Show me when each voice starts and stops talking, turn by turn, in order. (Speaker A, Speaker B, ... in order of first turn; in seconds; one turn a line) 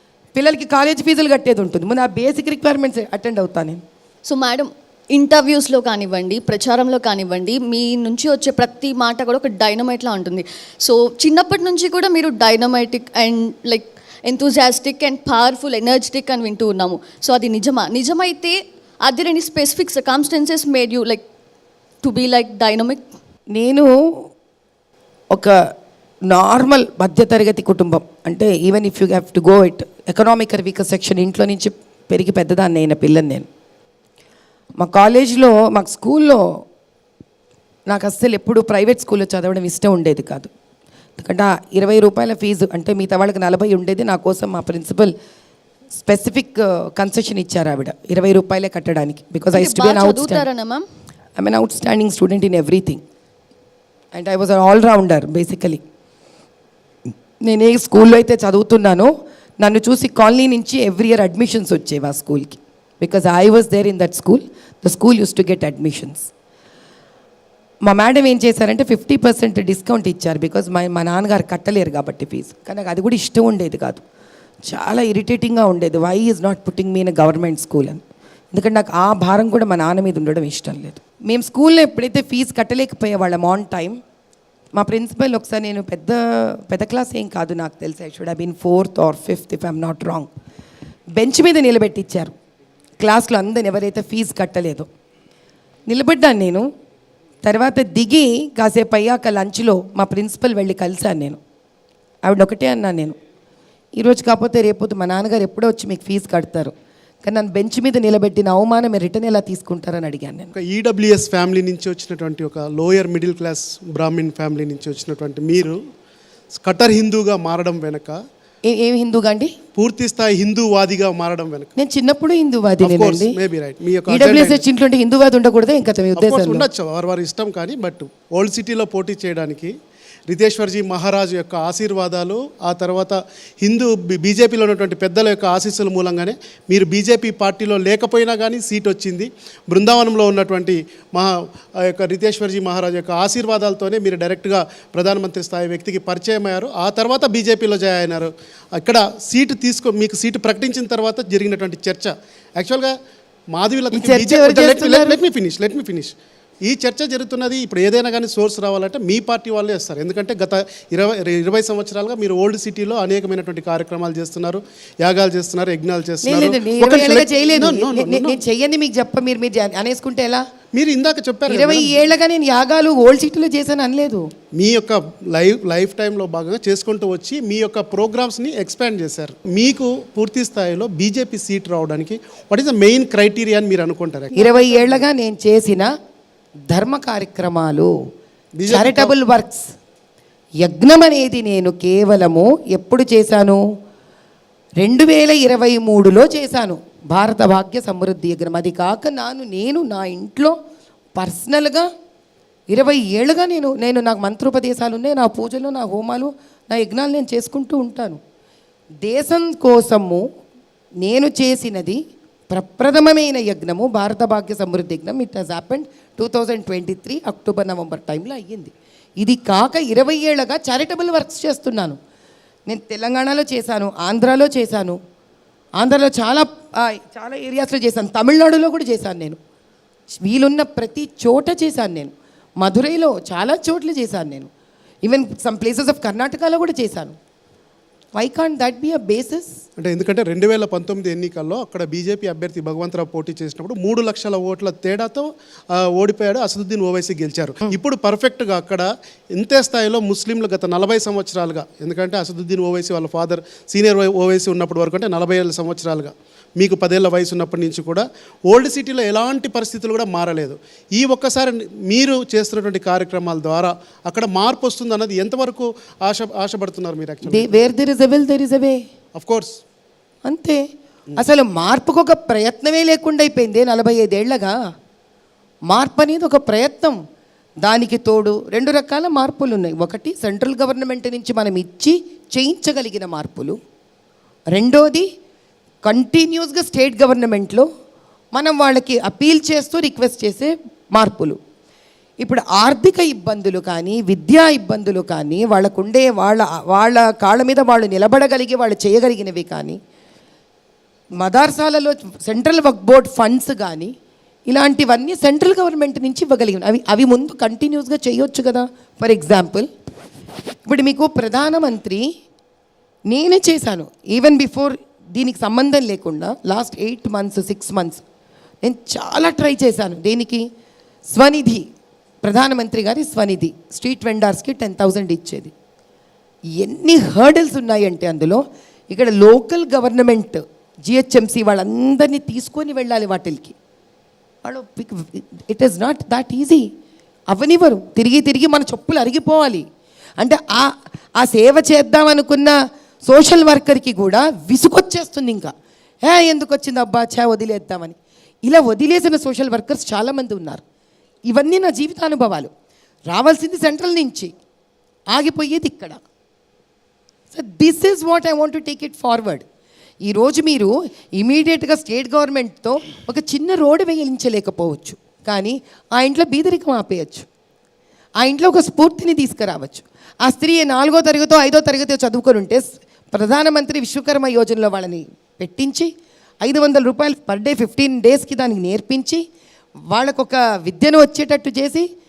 Speaker A: 0.3-3.8
Speaker B: 4.3-21.2
Speaker B: 22.0-23.0
Speaker A: 23.5-24.3
Speaker A: 26.3-33.5
Speaker A: 34.8-36.5
Speaker A: 37.9-40.5
Speaker A: 41.2-45.1
Speaker A: 46.0-50.5
Speaker B: 49.5-50.8
Speaker A: 51.4-53.0
Speaker A: 54.1-55.8
Speaker A: 57.5-66.3
Speaker A: 67.8-74.0
Speaker A: 74.7-84.0
Speaker A: 84.8-90.3
Speaker A: 91.2-92.3
Speaker A: 93.0-94.9
Speaker A: 95.9-96.7
Speaker A: 97.4-101.4
Speaker A: 102.2-103.2
Speaker A: 104.0-106.7
Speaker A: 107.2-110.5
Speaker C: 110.5-115.8
Speaker C: 116.5-118.2
Speaker A: 118.7-119.5
Speaker C: 119.8-121.7
Speaker A: 121.8-123.4
Speaker C: 122.8-124.7
Speaker A: 124.1-126.7
Speaker C: 126.2-129.7
Speaker C: 130.3-152.9
Speaker C: 153.5-156.1
Speaker A: 153.9-155.2
Speaker C: 156.7-168.4
Speaker A: 166.2-170.4
Speaker C: 170.7-172.0
Speaker A: 171.5-174.2
Speaker C: 174.6-185.0
Speaker A: 184.4-185.9
Speaker A: 186.7-187.9
Speaker C: 188.6-189.2
Speaker A: 188.7-189.7
Speaker A: 190.6-193.6
Speaker A: 194.8-200.6
Speaker A: 201.2-201.9
Speaker A: 202.7-208.2
Speaker A: 209.0-210.2
Speaker A: 211.0-222.0
Speaker A: 222.7-225.0
Speaker A: 225.8-229.4
Speaker A: 230.2-234.5
Speaker A: 235.0-237.2
Speaker A: 238.2-239.5
Speaker C: 239.8-267.6
Speaker A: 267.3-268.8
Speaker C: 269.1-269.6
Speaker A: 270.3-270.6
Speaker A: 271.2-274.6
Speaker A: 275.7-277.0
Speaker A: 277.6-283.6
Speaker A: 284.5-285.1
Speaker A: 285.9-287.7
Speaker A: 288.3-291.4
Speaker A: 292.2-299.8
Speaker A: 301.2-303.9
Speaker A: 304.5-309.7
Speaker A: 310.6-312.1
Speaker A: 313.1-318.0
Speaker A: 318.6-320.4
Speaker A: 321.1-321.7
Speaker A: 322.2-325.5
Speaker A: 326.6-333.6
Speaker A: 334.4-336.7
Speaker A: 337.3-339.6
Speaker A: 340.2-342.6
Speaker A: 343.1-345.5
Speaker A: 346.1-350.6
Speaker A: 351.3-352.5
Speaker A: 353.1-354.3
Speaker A: 355.1-356.0
Speaker A: 357.3-359.4
Speaker A: 360.1-367.3
Speaker A: 368.2-375.9
Speaker A: 376.4-379.2
Speaker A: 379.9-381.9